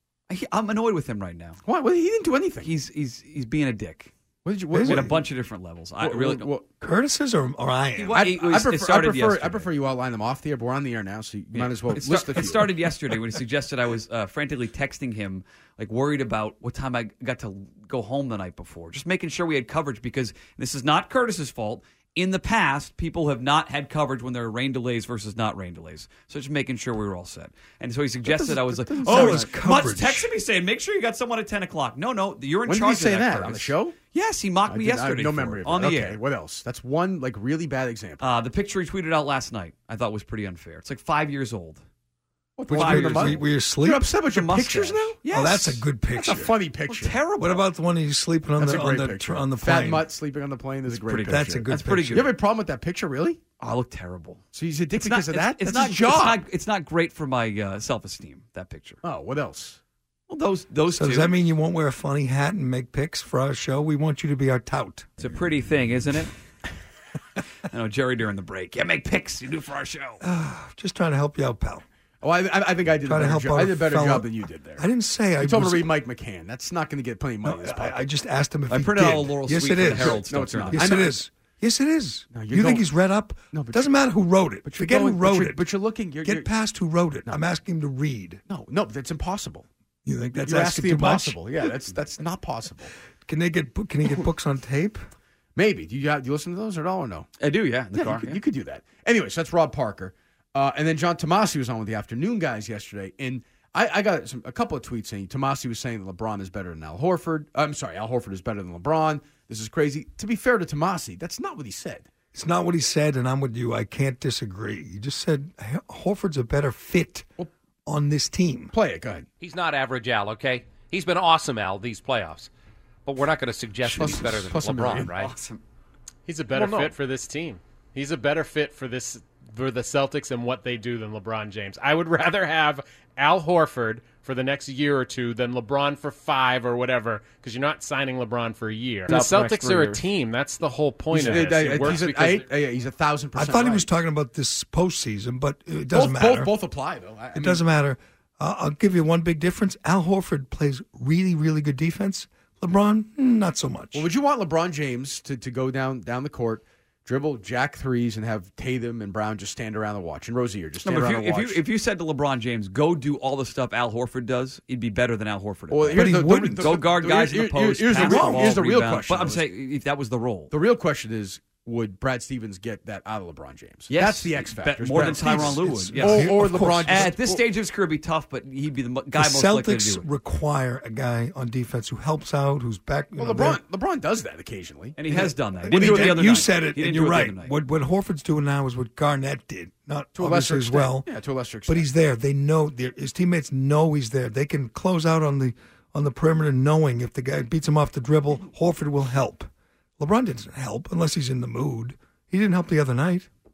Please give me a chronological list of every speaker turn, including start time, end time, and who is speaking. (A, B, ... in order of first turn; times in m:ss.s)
0:00.3-0:01.6 A
0:01.6-0:02.7 B
0:02.6-0:04.1 A
0:04.4-0:05.2 B
0:04.7-0:05.1 C
0:04.9-0:06.5 A
0:06.0-0:06.7 B
0:06.8-0:08.2 C
0:08.0-0:09.7 A
0:08.1-0:12.8 B
0:11.5-0:36.2 A
0:28.2-0:29.5 B
0:29.0-0:30.3 C
0:32.7-0:34.0 B
0:34.7-0:38.4 B
0:38.2-0:41.8 A
0:42.6-0:45.2 B
0:42.7-0:44.1 C
0:42.7-0:43.4 A
0:44.3-0:46.4 A
0:45.3-0:46.5 C
0:46.2-0:47.2 B
0:46.9-0:47.7 A
0:47.4-0:50.1 C
0:48.6-0:53.4 B
0:50.9-0:52.3 A
0:51.3-0:52.4 C
0:53.6-0:54.4 A
0:54.5-0:56.4 B
0:55.0-0:59.0 A
0:59.0-0:59.8 B
1:00.3-1:01.3 A
1:00.9-1:05.1 C
1:05.2-1:06.3 A
1:07.7-1:10.2 A
1:10.2-1:11.8 C
1:12.2-1:14.9 B
1:13.0-1:15.9 C
1:15.4-1:18.0 B
1:17.4-1:25.6 C
1:18.7-1:21.0 A
1:20.0-1:21.2 B
1:22.3-1:22.9 B
1:23.5-1:23.9 B
1:24.6-1:26.5 B
1:26.2-1:28.4 C
1:28.5-1:29.7 B
1:30.0-1:31.7 C
1:30.4-1:32.9 B
1:33.2-1:35.0 C
1:35.6-1:37.3 B
1:37.4-1:38.4 A
1:38.0-1:52.1 B
1:52.3-1:57.3 C
1:57.9-1:58.7 C
1:58.7-1:59.3 B
1:59.4-2:02.5 D
2:03.1-2:05.4 D
2:03.9-2:04.2 C
2:04.0-2:05.1 B
2:05.2-2:05.6 A
2:06.3-2:22.5 E
2:06.6-2:06.9 D
2:19.1-2:20.0 D
2:21.1-2:23.9 B
2:23.4-2:26.5 C
2:25.9-2:27.6 B
2:27.3-2:34.1 C
2:33.9-2:41.6 B
2:40.8-2:50.5 A
2:45.7-2:49.4 B
2:45.9-2:46.8 C
2:48.0-2:48.6 C
2:50.5-2:57.4 B
2:53.9-3:00.0 A
2:55.0-2:57.2 C
2:59.2-3:03.6 C
3:03.2-3:05.0 B
3:05.0-3:07.5 A
3:05.1-3:11.1 C
3:05.6-3:06.5 B
3:10.2-3:11.9 B
3:11.7-3:23.3 C